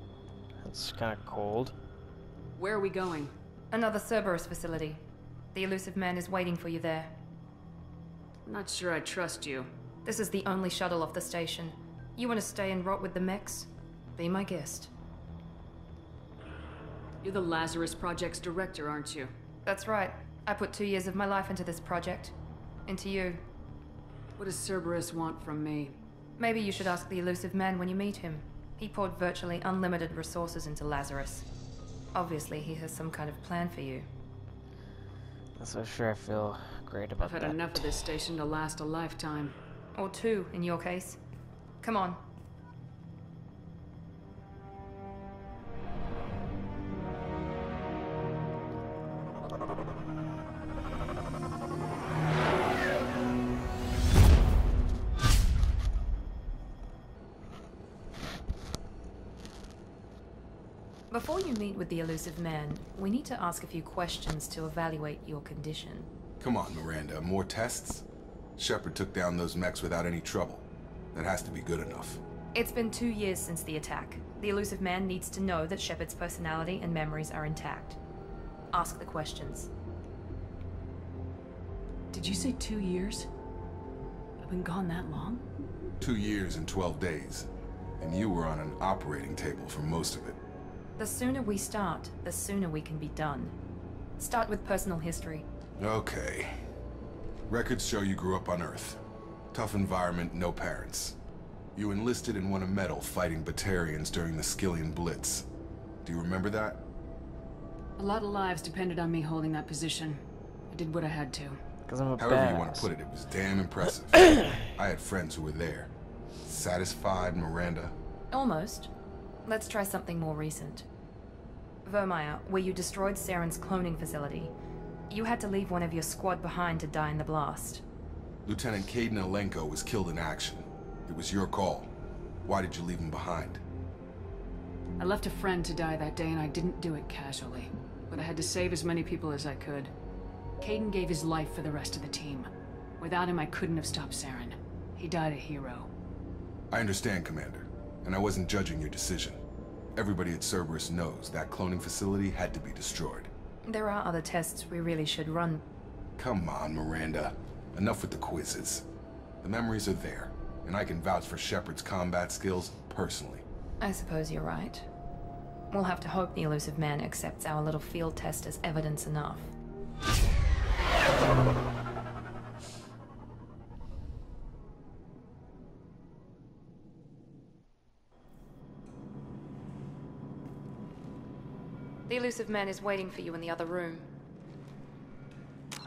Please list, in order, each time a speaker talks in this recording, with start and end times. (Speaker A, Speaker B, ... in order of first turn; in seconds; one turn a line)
Speaker A: 0.6-1.7
Speaker B: 2.5-3.3
Speaker C: 3.7-7.1
Speaker B: 8.4-9.7
Speaker C: 10.1-14.9
Speaker B: 17.2-19.3
Speaker C: 19.6-22.3
Speaker C: 22.9-23.4
Speaker B: 24.4-25.9
Speaker C: 26.4-31.4
Speaker C: 32.1-34.1
Speaker A: 35.6-38.0
Speaker B: 37.2-39.5
Speaker C: 39.9-41.2
Speaker C: 41.8-42.2
Speaker C: 61.1-66.1
Speaker D: 66.4-68.0
Speaker D: 68.6-72.2
Speaker C: 72.5-78.0
Speaker C: 78.7-79.7
Speaker B: 82.1-83.3
Speaker B: 84.4-85.4
Speaker D: 86.0-87.5
Speaker D: 88.0-90.4
Speaker C: 91.0-93.5
Speaker C: 94.2-95.4
Speaker D: 95.8-96.6
Speaker D: 97.5-99.0
Speaker D: 99.5-101.2
Speaker D: 101.8-105.5
Speaker D: 106.0-106.8
Speaker B: 108.0-111.6
Speaker A: 111.9-112.9
Speaker D: 112.2-115.9
Speaker D: 116.4-117.9
Speaker C: 118.3-118.9
Speaker C: 119.5-120.8
Speaker C: 121.8-124.5
Speaker C: 125.1-127.8
Speaker D: 128.4-131.9
Speaker D: 132.4-133.6
Speaker B: 135.0-139.9
Speaker B: 140.6-142.5
Speaker B: 143.0-145.9
Speaker D: 146.7-149.4
Speaker D: 149.9-153.3
Speaker C: 153.7-155.6
Speaker D: 156.2-158.8
Speaker D: 159.4-163.4
Speaker C: 163.8-164.9
Speaker C: 165.7-169.5
Speaker C: 182.1-184.1